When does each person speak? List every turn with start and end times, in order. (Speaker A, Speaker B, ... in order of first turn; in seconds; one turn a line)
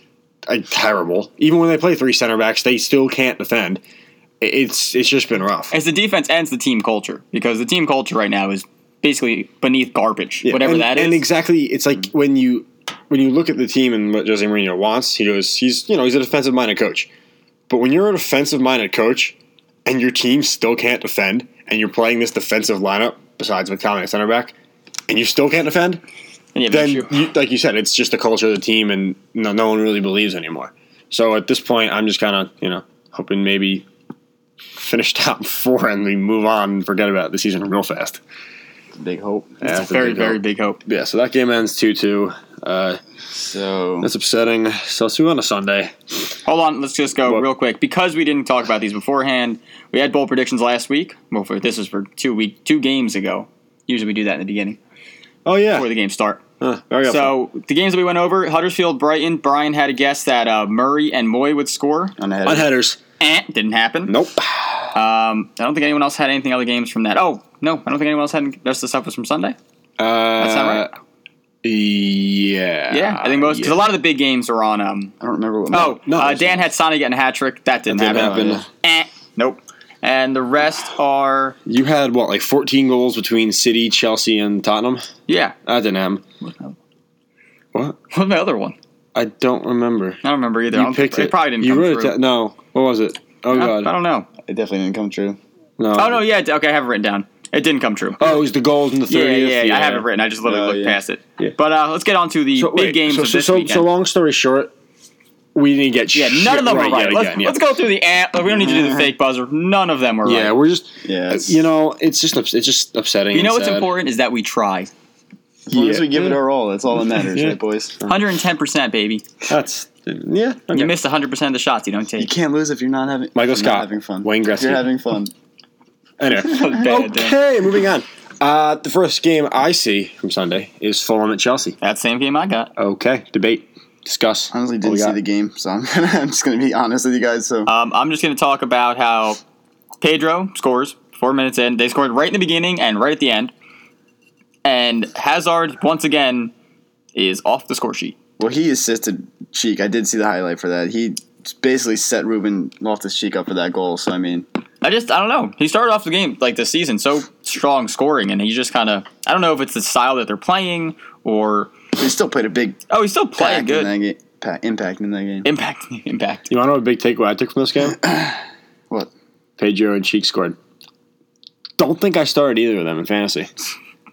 Speaker A: 0.5-3.8
Speaker A: 4.4-5.7
Speaker B: 5.7-11.2
Speaker A: 10.4-17.1
Speaker A: 17.7-24.6
Speaker A: 25.1-26.0
Speaker B: 26.6-27.2
Speaker A: 26.7-33.9
Speaker A: 34.8-38.2
Speaker C: 39.0-39.6
Speaker A: 39.6-43.0
Speaker B: 39.6-40.8
Speaker C: 43.3-44.1
Speaker A: 44.0-46.0
Speaker B: 46.5-54.8
Speaker A: 55.5-55.9
Speaker B: 55.7-56.4
Speaker A: 56.6-57.4
Speaker B: 57.1-62.1
Speaker C: 62.2-62.7
Speaker A: 62.5-63.0
Speaker B: 63.2-64.1
Speaker A: 64.1-64.9
Speaker B: 64.9-69.6
Speaker A: 70.0-70.9
Speaker B: 70.4-70.9
Speaker A: 71.6-73.8
Speaker B: 72.9-75.1
Speaker C: 75.2-76.0
Speaker B: 75.7-81.6
Speaker A: 75.9-76.6
Speaker A: 77.9-78.6
Speaker C: 78.1-78.7
Speaker A: 81.7-85.1
Speaker B: 85.3-85.6
Speaker A: 85.7-86.2
Speaker B: 86.4-86.8
Speaker B: 88.1-88.8
Speaker A: 89.2-90.2
Speaker B: 90.2-92.2
Speaker A: 90.7-93.9
Speaker B: 93.5-94.3
Speaker C: 94.5-95.4
Speaker A: 95.8-96.2
Speaker B: 96.0-98.4
Speaker A: 98.2-100.1
Speaker B: 99.1-103.9
Speaker C: 100.5-101.0
Speaker A: 102.5-104.7
Speaker A: 105.5-107.6
Speaker B: 106.1-110.5
Speaker C: 108.6-109.1
Speaker A: 110.2-113.9
Speaker C: 111.0-111.6
Speaker B: 113.3-114.9
Speaker C: 115.7-118.0
Speaker A: 115.7-116.4
Speaker A: 117.1-118.2
Speaker B: 118.1-119.3
Speaker A: 119.5-120.9
Speaker B: 120.7-122.3
Speaker C: 122.2-125.3
Speaker A: 123.3-124.9
Speaker A: 126.2-131.8
Speaker B: 126.5-127.4
Speaker B: 131.8-132.7
Speaker A: 132.8-135.2
Speaker C: 134.5-137.7
Speaker B: 137.7-139.4
Speaker B: 140.0-143.5
Speaker B: 144.7-146.5
Speaker B: 147.2-148.2
Speaker C: 148.4-154.5
Speaker B: 154.8-161.7
Speaker C: 162.0-162.8
Speaker B: 162.9-163.9
Speaker C: 163.4-165.5
Speaker B: 165.4-166.5
Speaker A: 166.5-168.0
Speaker C: 167.9-168.4
Speaker A: 169.6-170.6
Speaker A: 171.8-173.5